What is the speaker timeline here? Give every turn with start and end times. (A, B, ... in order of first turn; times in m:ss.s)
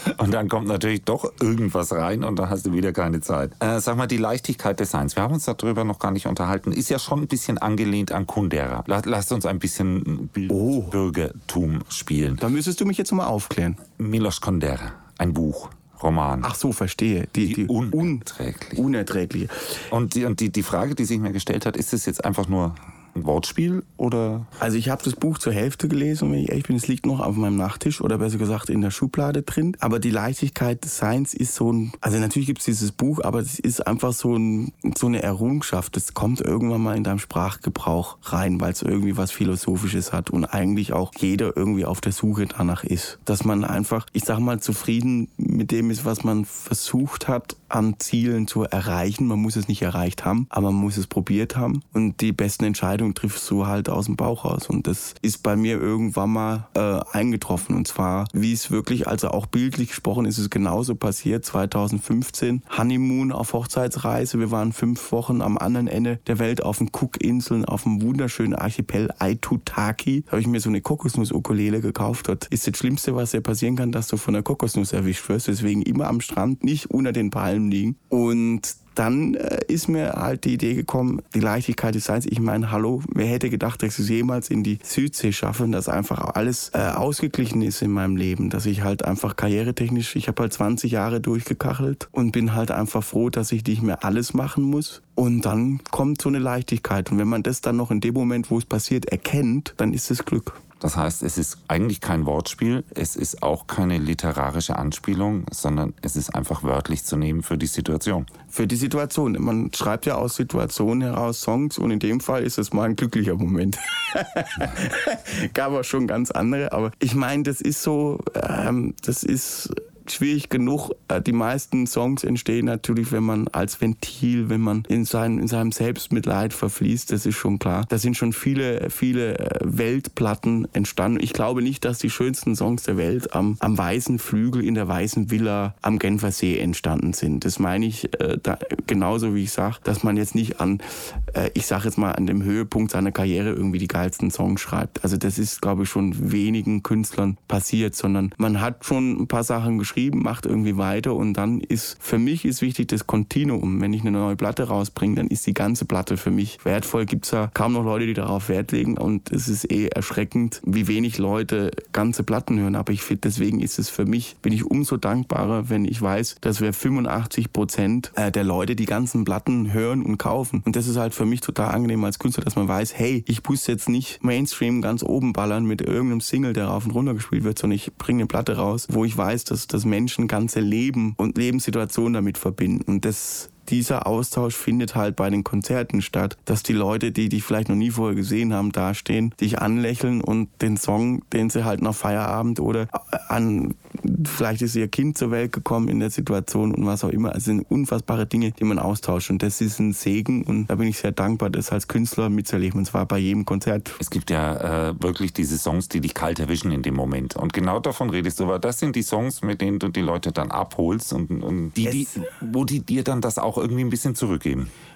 0:00.1-0:12.4 A
0:10.5-0:11.0 B
0:12.4-0:13.8 B
0:14.0-0:16.5 A
0:16.4-0:19.7 B
0:17.4-0:18.8 A
0:19.9-0:24.5 A
0:24.6-1:40.6 B
1:40.8-1:48.2 A
1:48.5-3:24.0 B
3:24.0-3:34.7 A
3:31.8-3:32.2 B